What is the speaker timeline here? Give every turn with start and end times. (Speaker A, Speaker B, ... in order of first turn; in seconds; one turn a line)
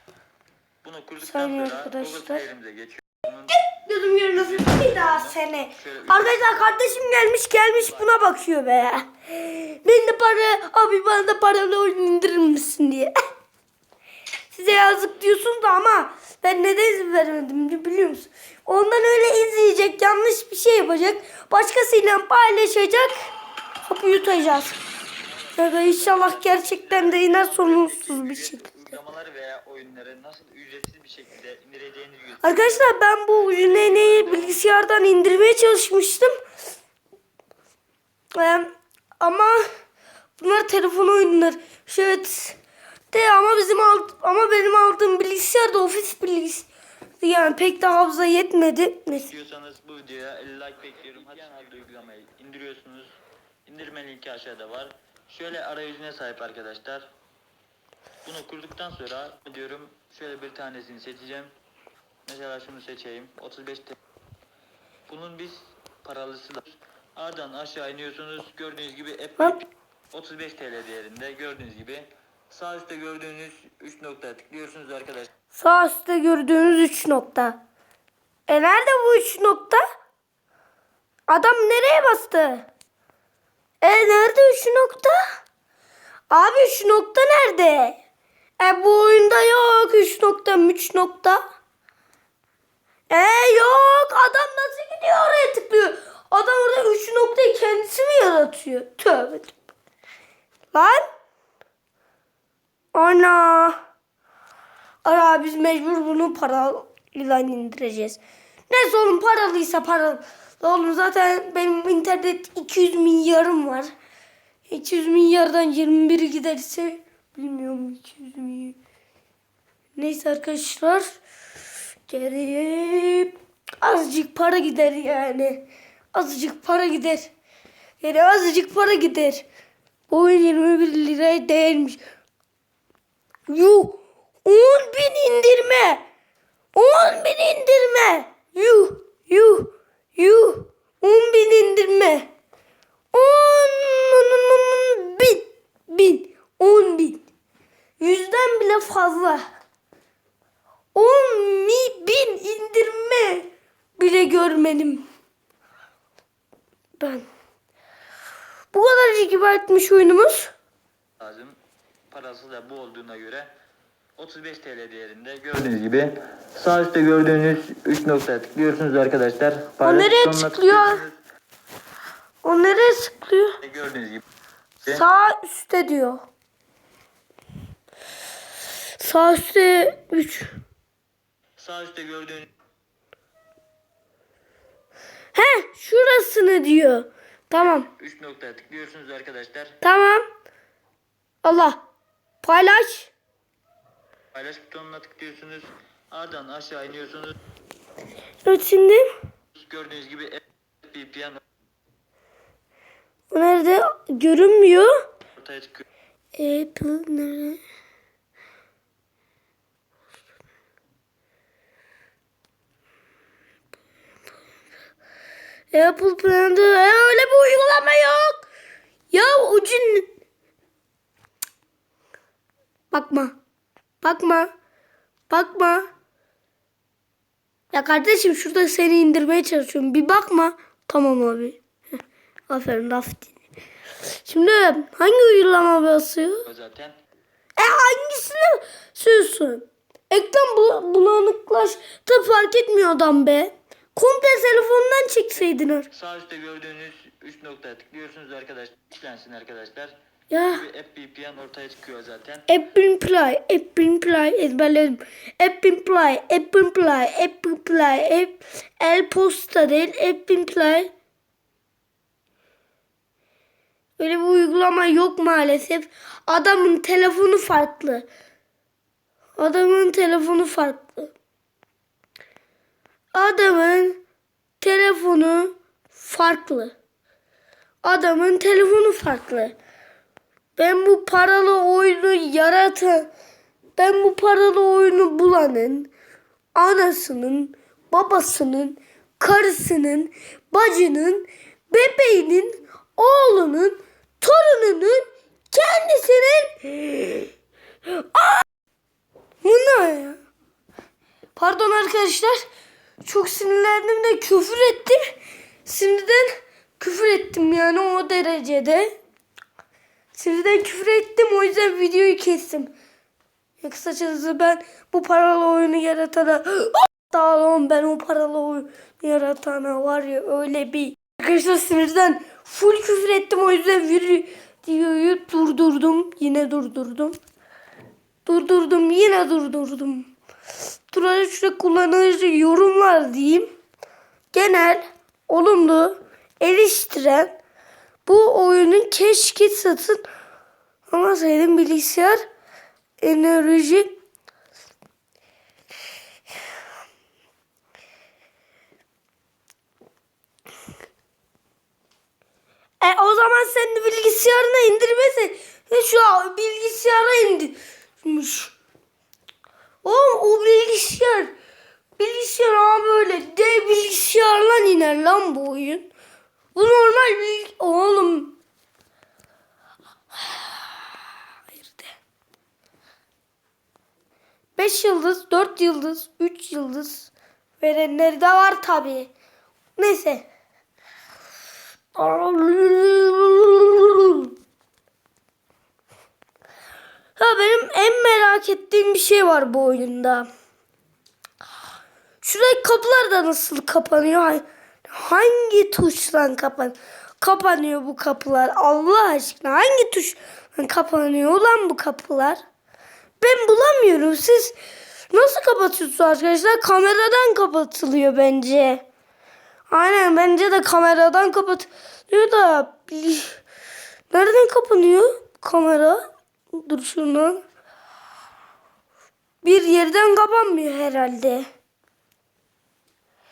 Speaker A: 0.8-3.6
Speaker B: 1.2-2.4
Speaker B: 3.5-13.1
Speaker A: 4.4-6.8
Speaker A: 7.7-8.1
Speaker B: 14.5-23.1
Speaker B: 23.9-24.8
Speaker A: 25.2-34.6
Speaker B: 25.6-28.7
Speaker B: 32.4-36.3
Speaker B: 38.4-38.7
Speaker B: 39.2-39.6
Speaker B: 40.4-42.6
Speaker B: 43.1-46.7
Speaker B: 47.2-49.3
Speaker A: 49.2-57.1
Speaker A: 58.2-61.5
Speaker A: 62.3-64.0
Speaker A: 65.1-66.7
Speaker A: 67.2-75.3
Speaker B: 75.5-77.6
Speaker B: 78.5-79.8
Speaker B: 81.3-82.7
Speaker B: 83.8-85.2
Speaker B: 86.3-88.0
Speaker B: 88.6-91.4
Speaker B: 93.1-99.5
Speaker B: 100.7-101.1
Speaker B: 102.9-103.8
Speaker B: 105.0-108.2
Speaker B: 108.7-113.9
Speaker B: 114.7-118.8
Speaker B: 120.0-121.2
Speaker B: 122.1-127.3
Speaker B: 128.0-129.5
Speaker B: 130.1-132.0
Speaker B: 133.5-136.0
Speaker B: 136.7-142.3
Speaker B: 143.1-147.2
Speaker B: 148.0-149.4
Speaker B: 150.9-155.1
Speaker B: 157.0-157.3
Speaker B: 158.7-160.5
Speaker A: 161.2-161.6
Speaker A: 162.1-163.5
Speaker A: 164.2-171.2
Speaker B: 169.8-171.0
Speaker B: 172.4-173.6
Speaker A: 173.6-174.2
Speaker B: 174.8-176.2
Speaker B: 179.0-180.5
Speaker A: 181.6-182.5
Speaker B: 185.3-187.9
Speaker A: 187.6-189.8
Speaker B: 189.8-190.2
Speaker B: 191.4-191.8
Speaker B: 192.4-193.1
Speaker A: 194.3-197.4
Speaker B: 198.4-199.1
Speaker A: 199.6-201.4
Speaker B: 203.3-204.9
Speaker A: 205.4-205.8
Speaker B: 206.3-207.6
Speaker B: 215.7-218.5
Speaker B: 219.1-220.1
Speaker B: 222.9-223.4
Speaker B: 224.0-224.5
Speaker B: 225.3-225.9
Speaker B: 227.7-231.6
Speaker B: 232.5-233.4
Speaker B: 234.2-236.4
Speaker A: 236.5-236.9
Speaker B: 237.6-245.9
Speaker A: 245.9-249.9
Speaker B: 250.3-250.6
Speaker A: 250.5-252.5
Speaker B: 252.5-260.9
Speaker B: 264.0-268.1
Speaker B: 269.4-271.1
Speaker B: 273.1-274.0
Speaker B: 274.6-276.8
Speaker B: 277.8-279.6
Speaker B: 280.6-283.1
Speaker B: 283.8-285.9
Speaker B: 286.6-297.3
Speaker B: 297.9-298.4
Speaker B: 299.4-300.2
Speaker B: 301.4-302.4
Speaker B: 303.0-305.0
Speaker B: 305.7-308.9
Speaker B: 310.1-312.7
Speaker B: 313.6-327.2
Speaker B: 328.3-330.1
Speaker B: 330.9-333.5
Speaker B: 334.3-337.4
Speaker B: 338.1-340.1
Speaker B: 340.9-342.2
Speaker B: 343.0-343.9
Speaker B: 352.8-358.6
Speaker B: 359.8-361.3
Speaker B: 362.0-365.9
Speaker B: 366.6-368.4
Speaker B: 370.3-370.6
Speaker B: 371.5-371.9
Speaker B: 374.6-379.1
Speaker B: 379.8-380.3
Speaker B: 381.9-384.3
Speaker B: 387.2-390.3
Speaker B: 392.2-402.4
Speaker B: 403.2-404.6
Speaker B: 405.1-408.8
Speaker B: 409.7-413.4
Speaker B: 414.1-417.4
Speaker B: 419.4-421.5